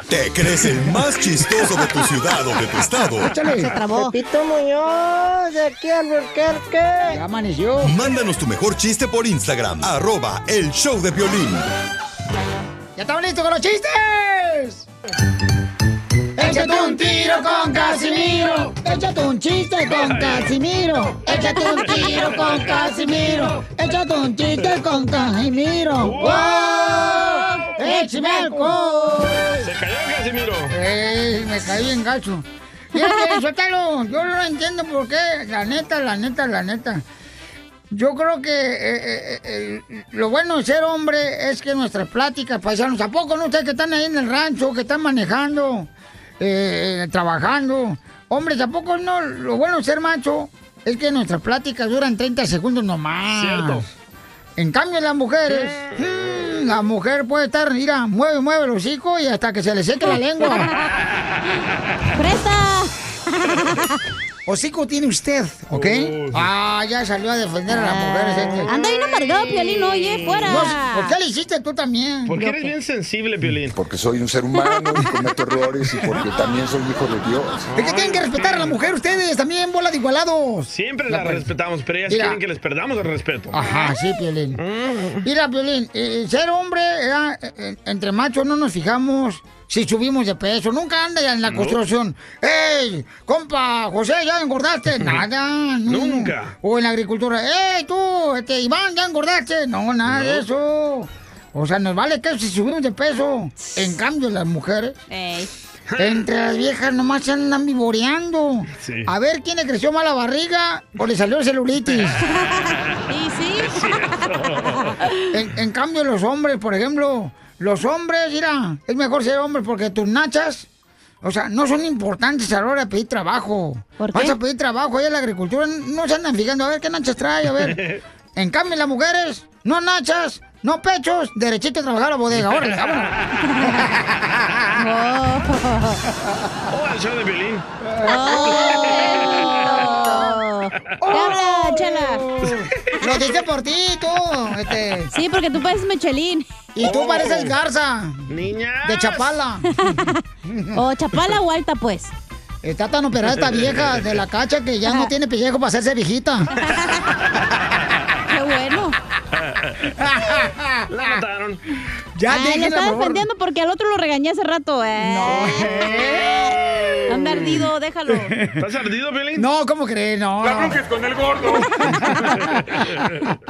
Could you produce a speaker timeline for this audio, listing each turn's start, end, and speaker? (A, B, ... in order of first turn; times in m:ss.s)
0:00.1-0:03.3 A
0:03.1-0:03.8 B
0:03.7-0:07.2 C
0:03.8-0:04.1 D
0:07.1-0:08.0 B
0:07.8-0:11.6 A
0:13.0-0:14.8 B
0:16.4-0:29.7 B
0:16.4-0:18.7 E
0:19.8-0:20.5 E
0:21.1-0:23.6 E
0:21.3-0:22.4 D
0:26.0-0:27.0 E
0:26.2-0:29.2 D
0:29.6-0:30.7 E
0:30.7-0:37.0 B
0:33.0-0:33.3 D
0:37.9-0:53.9 B
0:53.3-0:53.9 E
0:54.6-1:00.7 B
0:55.5-0:55.8 E
1:00.5-1:00.9 D
1:02.1-1:03.9 D
1:04.4-1:08.7 B
1:05.7-1:06.5 E
1:07.9-1:11.1 D
1:08.4-1:08.7 E
1:10.4-1:12.3 B
1:12.2-1:13.7 E
1:12.4-1:12.7 D
1:13.7-1:17.6 F
1:17.7-1:18.7 E
1:17.7-1:21.5 B
1:20.7-1:23.6 E
1:22.1-1:22.4 B
1:23.5-1:24.6 B
1:24.6-1:25.2 E
1:25.2-1:45.0 B
1:31.5-1:31.8 E
1:35.9-1:36.5 E
1:40.1-1:40.4 E
1:45.1-1:45.5 D
1:45.9-1:46.2 E
1:46.0-1:52.2 B
1:48.8-1:49.1 E
1:52.2-1:54.2 D
1:53.6-1:55.0 E
1:55.3-2:00.7 B
2:01.2-2:07.8 B
2:04.0-2:04.3 D
2:07.6-2:08.0 E
2:08.4-2:13.1 B
2:13.4-2:13.8 D
2:13.8-2:14.6 B
2:14.8-2:16.0 D
2:16.7-2:17.7 E
2:18.0-2:20.3 B
2:18.0-2:22.2 D
2:18.4-2:19.6 E
2:21.0-2:25.1 B
2:25.1-2:26.4 D
2:26.7-2:28.3 B
2:26.8-2:27.6 E
2:28.3-2:29.4 E
2:28.8-2:29.7 B
2:29.8-2:30.2 D
2:30.4-2:30.8 B
2:30.7-2:32.1 D
2:32.6-2:36.5 B
2:33.3-2:34.2 E
2:36.6-2:37.1 D
2:38.3-2:38.9 D
2:39.3-2:39.9 E
2:40.0-2:41.1 B
2:40.9-2:41.6 E
2:42.1-2:43.2 B
2:42.3-2:46.4 D
2:45.0-2:46.5 B
2:47.1-2:48.3 D
2:48.3-2:48.6 B
2:48.6-2:49.5 E
2:49.4-2:50.8 B
2:50.4-2:51.4 F
2:51.4-2:52.8 B
2:52.2-2:52.6 E